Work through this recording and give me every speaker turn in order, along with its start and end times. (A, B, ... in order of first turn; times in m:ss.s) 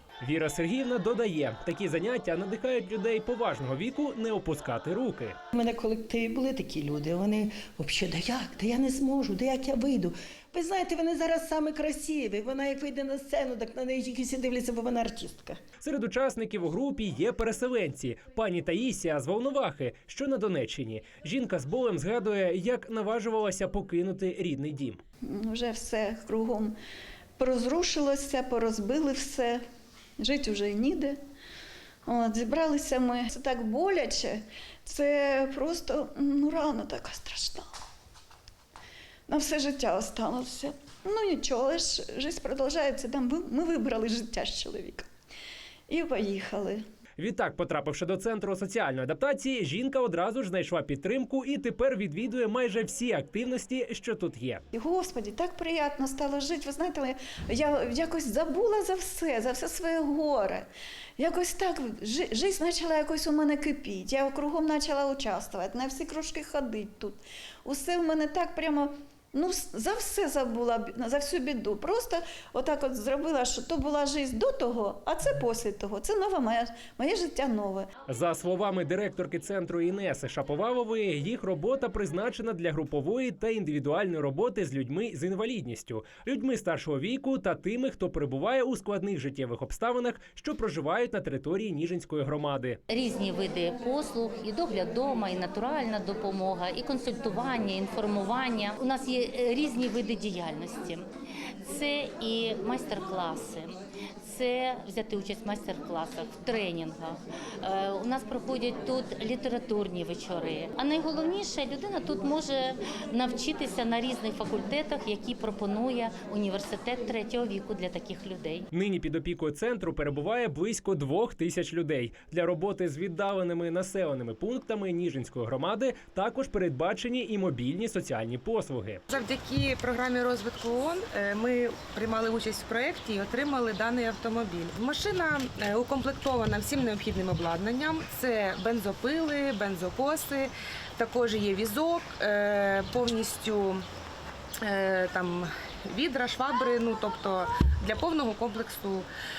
0:00.2-0:05.4 A
0:05.5-0:15.6 B
0:15.8-0:25.0 A
0:25.3-0:26.7 C
0:27.4-0:29.6 C
0:30.2-0:31.2 C
0:32.0-0:37.7 C
0:39.3-0:45.1 C
0:45.9-0:46.8 C
0:47.2-0:54.6 A
0:54.7-1:00.7 C
1:01.2-1:17.9 C
1:18.1-1:32.8 A
1:32.9-1:41.1 D
1:41.6-1:58.6 D
1:58.7-2:09.0 A
2:09.1-2:23.8 E
2:24.6-2:29.1 E